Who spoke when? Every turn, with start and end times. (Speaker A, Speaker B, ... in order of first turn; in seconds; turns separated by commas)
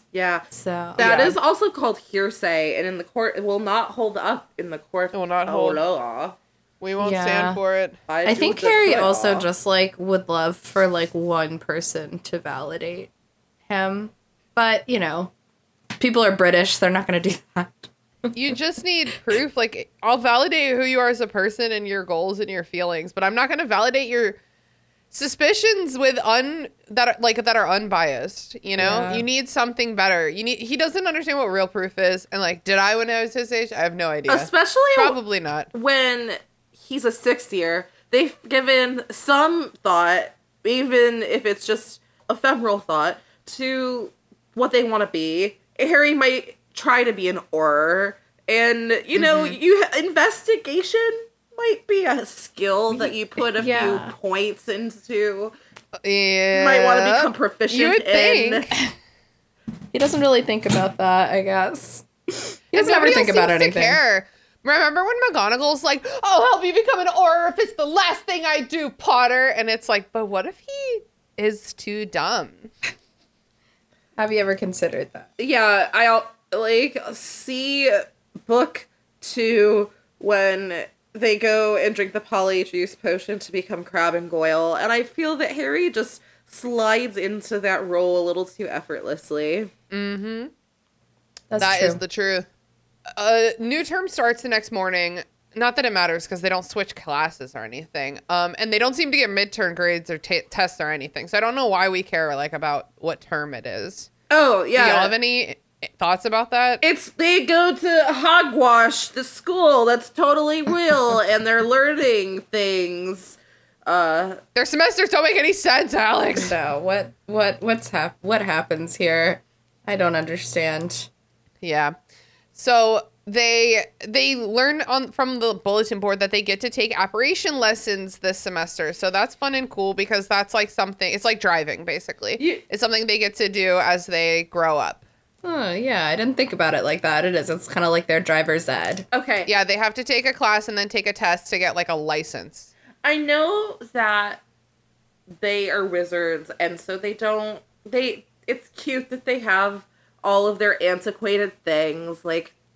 Speaker A: 0.1-0.5, Speaker B: 0.5-1.4, Speaker A: 1.0-6.3, Speaker C: 5.1-5.8, Speaker C: 6.8-8.0, Speaker B: 7.0-7.6, Speaker A: 8.1-9.4, Speaker B: 8.2-13.1, Speaker B: 13.7-15.3, Speaker B: 16.0-18.3, Speaker C: 18.3-24.4, Speaker C: 25.1-35.7, Speaker B: 28.8-29.2, Speaker A: 34.3-35.2, Speaker A: 35.7-55.5, Speaker C: 49.1-49.5, Speaker B: 53.5-54.1, Speaker C: 56.0-58.7, Speaker A: 56.5-58.7, Speaker B: 59.9-64.0, Speaker C: 62.7-72.7, Speaker B: 74.2-75.3, Speaker A: 75.4-89.7, Speaker C: 89.9-90.5, Speaker B: 91.5-92.0, Speaker C: 91.6-92.5, Speaker C: 93.1-104.1, Speaker A: 104.3-105.1, Speaker C: 104.8-106.8, Speaker A: 106.8-114.4, Speaker C: 114.5-116.5, Speaker B: 116.3-121.1, Speaker C: 121.6-121.9, Speaker C: 122.5-135.0, Speaker B: 135.4-139.1, Speaker A: 139.1-139.5, Speaker C: 139.4-142.7, Speaker A: 143.0-144.4, Speaker A: 145.4-152.5